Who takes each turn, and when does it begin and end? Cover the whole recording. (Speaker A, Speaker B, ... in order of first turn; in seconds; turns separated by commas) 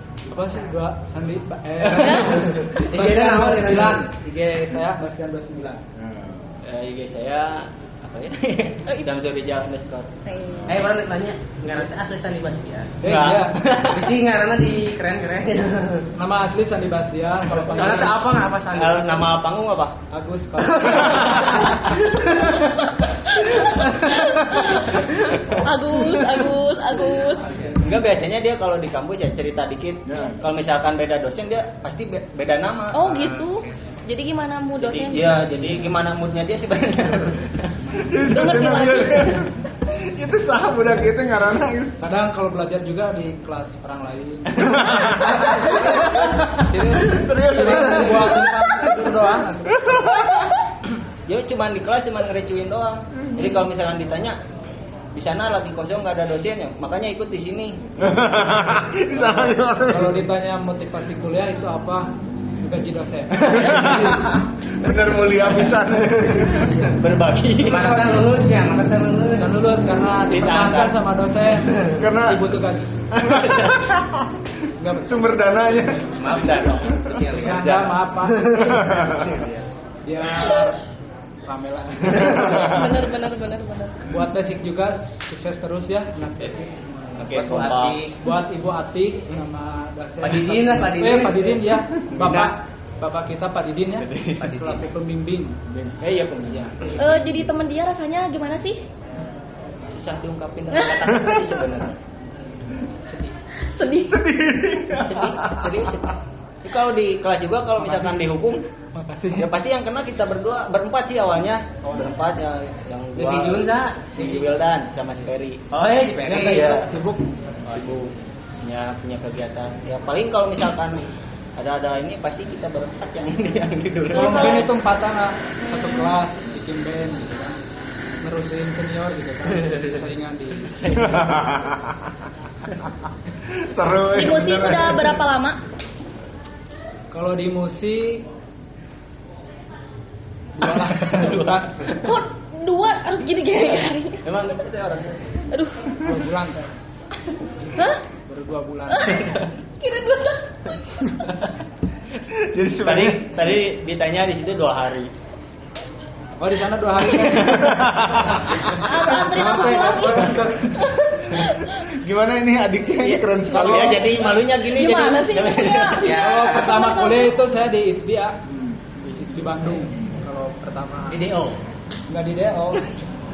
Speaker A: 0.3-5.8, Speaker B: 2.0-4.1, Speaker C: 2.0-2.4, Speaker D: 6.0-6.6, Speaker E: 6.6-10.1, Speaker C: 10.2-10.8, Speaker B: 10.7-13.0, Speaker A: 13.0-13.6, Speaker E: 13.0-14.1, Speaker B: 13.8-16.1, Speaker A: 16.1-18.2, Speaker B: 17.5-19.3, Speaker E: 18.7-19.9, Speaker A: 20.1-21.8, Speaker B: 20.6-22.7, Speaker C: 22.5-25.0, Speaker B: 23.4-26.4, Speaker C: 25.6-27.6, Speaker B: 27.1-27.8, Speaker E: 27.8-33.3, Speaker D: 30.1-30.4, Speaker C: 32.9-35.4, Speaker B: 33.1-33.9, Speaker E: 34.8-37.8, Speaker A: 37.8-38.2, Speaker D: 38.0-42.0, Speaker C: 38.2-39.5, Speaker A: 42.0-50.0, Speaker D: 44.5-48.8, Speaker E: 45.5-45.9, Speaker E: 47.8-48.3, Speaker D: 49.7-50.6, Speaker E: 51.3-54.4, Speaker E: 55.1-58.0, Speaker D: 58.0-60.2, Speaker A: 59.1-64.1, Speaker D: 63.4-66.9, Speaker A: 66.6-66.9, Speaker E: 66.8-68.0, Speaker B: 67.6-69.5, Speaker A: 67.7-68.3, Speaker A: 69.3-72.9, Speaker E: 70.3-71.0, Speaker D: 71.9-72.6, Speaker D: 73.2-74.3, Speaker E: 73.2-73.8, Speaker A: 74.8-75.7, Speaker D: 75.0-76.8, Speaker B: 76.2-79.6, Speaker A: 77.3-78.9, Speaker E: 77.4-77.9, Speaker D: 78.6-79.3, Speaker A: 80.0-80.8, Speaker A: 81.5-82.9, Speaker B: 82.1-82.8, Speaker D: 82.2-82.7, Speaker C: 82.4-84.1, Speaker A: 84.0-87.5, Speaker E: 87.2-88.0, Speaker B: 87.3-88.2, Speaker A: 88.2-95.6, Speaker B: 90.2-91.8, Speaker E: 92.1-92.5, Speaker E: 94.1-94.5, Speaker B: 94.4-94.9, Speaker E: 95.7-97.0, Speaker A: 96.5-96.8, Speaker C: 97.0-98.8, Speaker E: 99.8-102.0, Speaker C: 100.7-101.0, Speaker A: 103.1-103.3, Speaker C: 103.6-104.2, Speaker D: 104.1-105.9, Speaker E: 105.0-108.7, Speaker A: 107.8-108.2, Speaker A: 108.9-109.5, Speaker E: 109.3-115.6, Speaker A: 111.8-112.2, Speaker B: 113.2-114.6, Speaker B: 115.7-116.8, Speaker A: 116.2-118.0, Speaker E: 116.3-116.9, Speaker E: 117.7-124.7, Speaker C: 124.1-124.7, Speaker A: 124.1-127.6, Speaker C: 125.6-126.1, Speaker A: 128.2-131.3, Speaker D: 130.9-132.1, Speaker D: 133.6-135.2, Speaker C: 134.1-135.6, Speaker A: 137.1-138.2, Speaker A: 140.6-141.9, Speaker E: 140.6-142.0, Speaker C: 141.9-144.3, Speaker E: 144.2-145.3, Speaker C: 145.5-145.9, Speaker A: 146.0-146.7, Speaker C: 147.8-148.0, Speaker A: 148.2-149.4, Speaker C: 148.9-151.4, Speaker D: 152.3-153.3, Speaker E: 152.8-155.1, Speaker A: 156.4-158.3, Speaker D: 157.3-159.2, Speaker C: 158.7-161.9, Speaker A: 159.2-161.0, Speaker D: 161.9-164.3, Speaker E: 163.0-166.1, Speaker C: 163.5-167.3, Speaker B: 166.0-166.9, Speaker A: 166.1-168.4, Speaker A: 169.0-171.2, Speaker B: 171.1-171.6, Speaker A: 172.1-172.9